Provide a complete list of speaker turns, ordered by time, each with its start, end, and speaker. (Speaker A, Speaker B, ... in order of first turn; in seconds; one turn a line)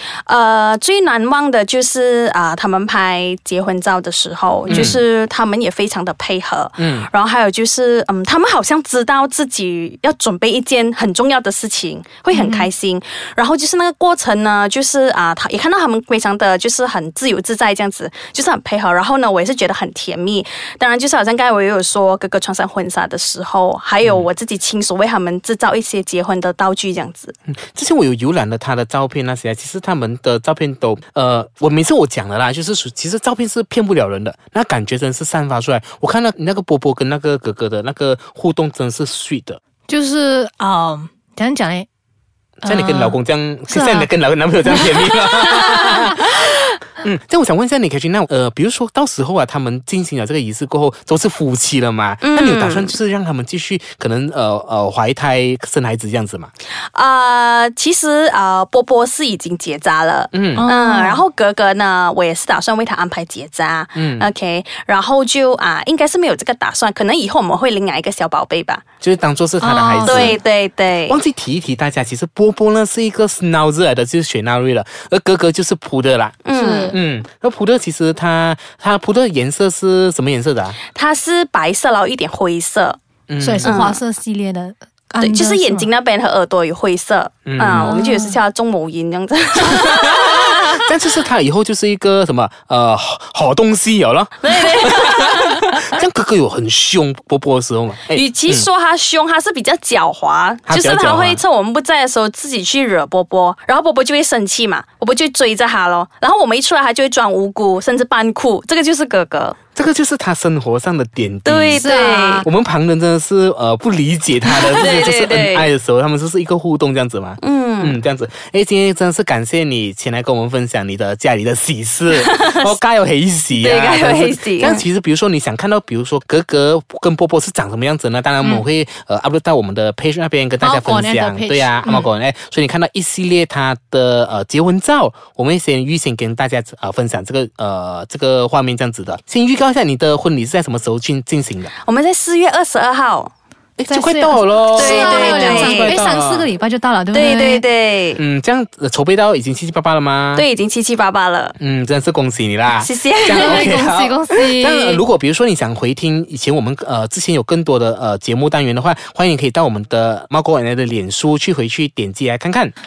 Speaker A: 0.2-27.3
Speaker B: 4.7-5.0
Speaker B: 6.8-7.1
Speaker C: 12.3-12.7
Speaker B: 27.6-39.6
Speaker C: 39.9-41.9
Speaker B: 42.6-46.5
Speaker C: 42.6-43.1
Speaker C: 43.7-44.1
Speaker C: 44.6-46.5
Speaker B: 47.0-56.5
Speaker A: 52.2-52.9
Speaker A: 56.9-68.8
Speaker B: 60.3-60.6
Speaker C: 60.5-61.2
Speaker B: 64.0-64.3
Speaker B: 69.0-70.4
Speaker C: 69.6-70.4
Speaker A: 70.0-71.2
Speaker B: 71.1-80.8
Speaker A: 76.4-77.0
Speaker C: 76.5-77.0
Speaker A: 80.9-83.0
Speaker B: 83.3-83.8
Speaker C: 83.4-85.9
Speaker A: 83.6-84.0
Speaker A: 85.2-90.8
Speaker B: 87.5-88.0
Speaker C: 87.8-88.4
Speaker B: 89.6-98.7
Speaker A: 94.4-95.8
Speaker A: 98.1-109.6
Speaker B: 100.7-101.4
Speaker B: 109.7-111.9
Speaker A: 111.4-112.5
Speaker C: 111.8-112.5
Speaker B: 112.4-141.7
Speaker A: 114.7-115.7
Speaker A: 117.4-118.0
Speaker A: 122.1-122.7
Speaker A: 123.5-124.8
Speaker C: 130.6-132.0
Speaker A: 141.8-143.3
Speaker B: 143.8-146.5
Speaker C: 143.9-147.6
Speaker A: 144.7-145.9
Speaker A: 147.1-148.2
Speaker B: 148.2-150.4
Speaker A: 150.3-151.5
Speaker B: 151.6-162.7
Speaker A: 152.8-153.7
Speaker C: 153.3-155.0